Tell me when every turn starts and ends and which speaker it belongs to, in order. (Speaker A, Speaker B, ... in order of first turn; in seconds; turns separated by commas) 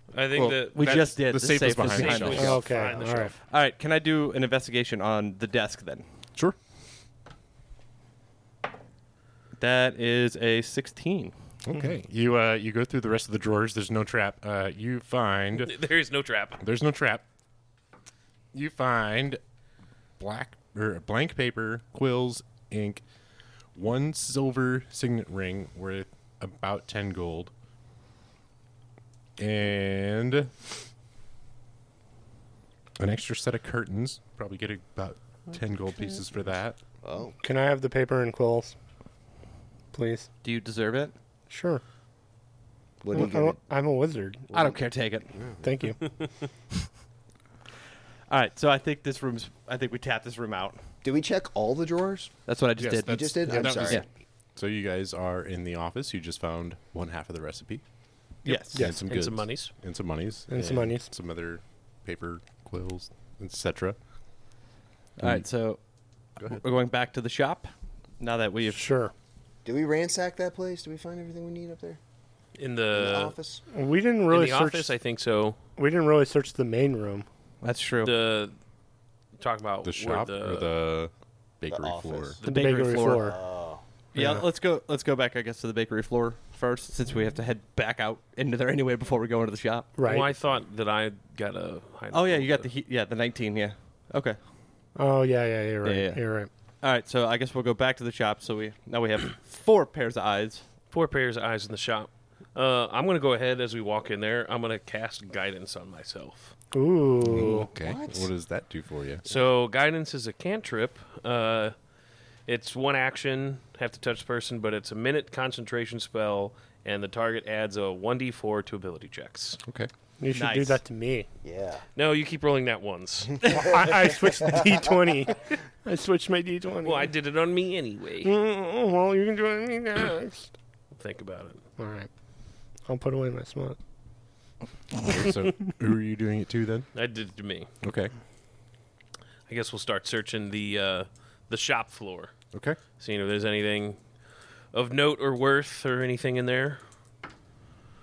Speaker A: 0.1-1.1, Speaker B: 0.3-2.6, Speaker C: 0.7-6.0, Speaker A: 1.7-3.4, Speaker D: 2.3-3.3, Speaker C: 9.6-11.3, Speaker B: 11.6-15.7, Speaker A: 15.6-16.6, Speaker B: 16.6-17.2, Speaker B: 18.5-19.4, Speaker B: 20.2-23.0, Speaker B: 23.7-27.5, Speaker B: 29.4-30.5, Speaker B: 33.0-36.8, Speaker E: 37.0-37.4, Speaker D: 37.4-38.7, Speaker D: 39.9-40.3, Speaker C: 40.4-41.1, Speaker D: 41.5-41.8, Speaker E: 43.0-43.6, Speaker D: 43.1-44.5, Speaker E: 44.5-44.8, Speaker C: 44.5-45.3, Speaker E: 45.3-45.7, Speaker D: 45.6-46.0, Speaker C: 48.3-50.8, Speaker E: 51.0-52.3, Speaker C: 52.5-54.0, Speaker B: 52.8-54.0, Speaker E: 53.0-54.0, Speaker B: 54.5-57.8, Speaker C: 58.4-58.8, Speaker A: 58.5-59.7, Speaker B: 58.7-64.0, Speaker D: 58.7-59.1, Speaker D: 60.5-61.1, Speaker B: 65.2-65.5, Speaker C: 65.2-65.8, Speaker C: 66.4-68.9, Speaker D: 68.7-69.1, Speaker E: 69.6-72.0, Speaker A: 72.6-73.3, Speaker E: 72.9-73.6, Speaker D: 73.7-74.9, Speaker A: 74.3-75.6, Speaker D: 75.8-77.2, Speaker C: 77.6-78.1, Speaker A: 78.0-78.5, Speaker A: 79.4-80.7, Speaker B: 79.8-82.4, Speaker E: 81.7-82.4, Speaker C: 82.4-83.3, Speaker D: 82.4-83.4, Speaker E: 83.0-83.8, Speaker C: 84.1-89.9, Speaker D: 84.1-84.4, Speaker D: 90.0-90.3, Speaker A: 90.0-92.7, Speaker C: 92.1-94.4, Speaker D: 95.0-96.5, Speaker C: 95.8-96.2, Speaker C: 96.8-100.6, Speaker A: 100.9-106.5, Speaker D: 106.7-107.7, Speaker B: 107.2-109.2, Speaker E: 107.3-108.3, Speaker A: 109.2-111.7, Speaker A: 112.5-119.6, Speaker B: 119.6-119.9, Speaker D: 120.2-121.3, Speaker C: 120.3-120.8, Speaker E: 121.4-121.8, Speaker A: 122.0-123.7, Speaker D: 123.4-127.1, Speaker E: 124.2-124.9, Speaker A: 126.8-128.3, Speaker D: 128.2-130.5, Speaker A: 131.0-131.6, Speaker D: 131.8-132.1, Speaker D: 132.9-133.8, Speaker B: 135.0-136.9, Speaker A: 136.9-137.7, Speaker B: 137.8-138.1, Speaker A: 139.5-142.3, Speaker B: 142.5-142.8, Speaker A: 143.0-144.0, Speaker A: 144.7-146.8